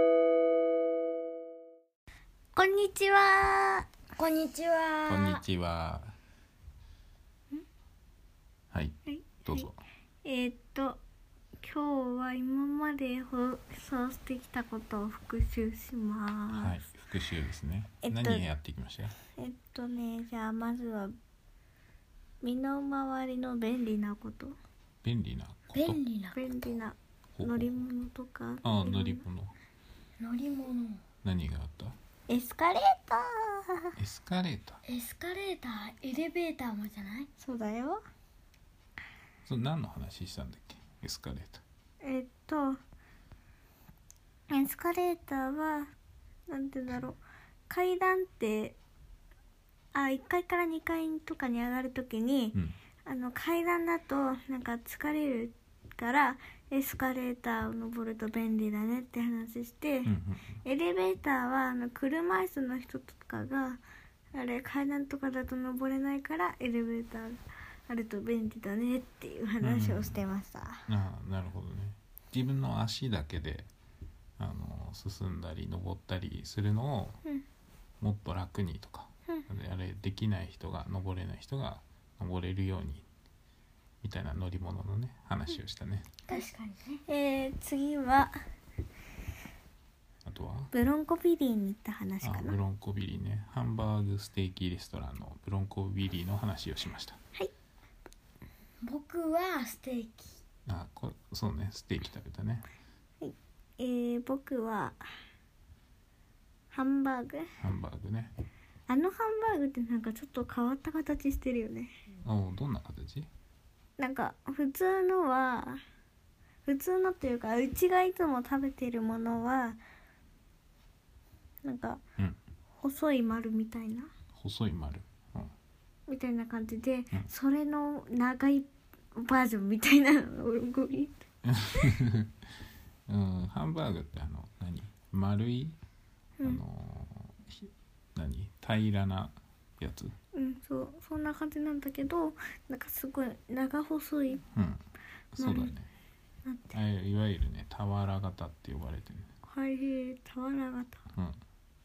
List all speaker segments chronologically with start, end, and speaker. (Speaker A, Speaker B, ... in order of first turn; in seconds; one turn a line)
Speaker A: 2.5-3.9
Speaker B: 4.1-5.4
Speaker C: 5.1-6.1
Speaker C: 8.7-9.8
Speaker A: 9.1-9.7
Speaker A: 10.2-11.0
Speaker A: 11.6-16.8
Speaker C: 16.5-19.2
Speaker A: 18.0-18.4
Speaker A: 19.4-21.1
Speaker A: 22.4-24.6
Speaker C: 25.0-26.0
Speaker B: 25.7-26.5
Speaker A: 26.3-29.2
Speaker C: 27.3-27.8
Speaker C: 28.6-29.5
Speaker B: 30.2-31.0
Speaker C: 31.2-32.0
Speaker A: 32.3-33.9
Speaker C: 34.0-34.8
Speaker B: 34.8-37.3
Speaker A: 37.4-38.0
Speaker C: 39.5-41.6
Speaker A: 42.0-42.8
Speaker A: 44.5-45.9
Speaker A: 46.5-48.8
Speaker A: 49.9-63.8
Speaker C: 60.0-60.6
Speaker A: 64.3-70.9
Speaker C: 69.6-70.2
Speaker C: 70.9-73.7
Speaker C: 74.4-77.2
Speaker C: 78.0-83.0
Speaker C: 84.0-86.1
Speaker B: 86.3-87.0
Speaker A: 87.1-88.4
Speaker C: 90.2-90.7
Speaker A: 90.7-92.6
Speaker C: 92.2-97.2
Speaker B: 98.8-100.4
Speaker C: 100.7-102.7
Speaker A: 103.2-105.1
Speaker A: 106.7-107.5
Speaker C: 107.6-108.3
Speaker A: 108.9-111.9
Speaker C: 112.2-113.3
Speaker A: 114.0-115.8
Speaker A: 116.7-119.8
Speaker A: 121.6-122.0
Speaker A: 122.8-124.1
Speaker C: 124.3-125.5
Speaker A: 126.1-131.2
Speaker C: 131.4-132.3
Speaker C: 133.1-135.8
Speaker C: 136.4-140.1
Speaker A: 140.3-144.4
Speaker C: 144.5-144.8
Speaker C: 145.3-145.9
Speaker A: 145.4-145.7
Speaker A: 146.4-146.8
Speaker C: 146.7-149.3
Speaker A: 149.4-151.0
Speaker C: 151.1-151.4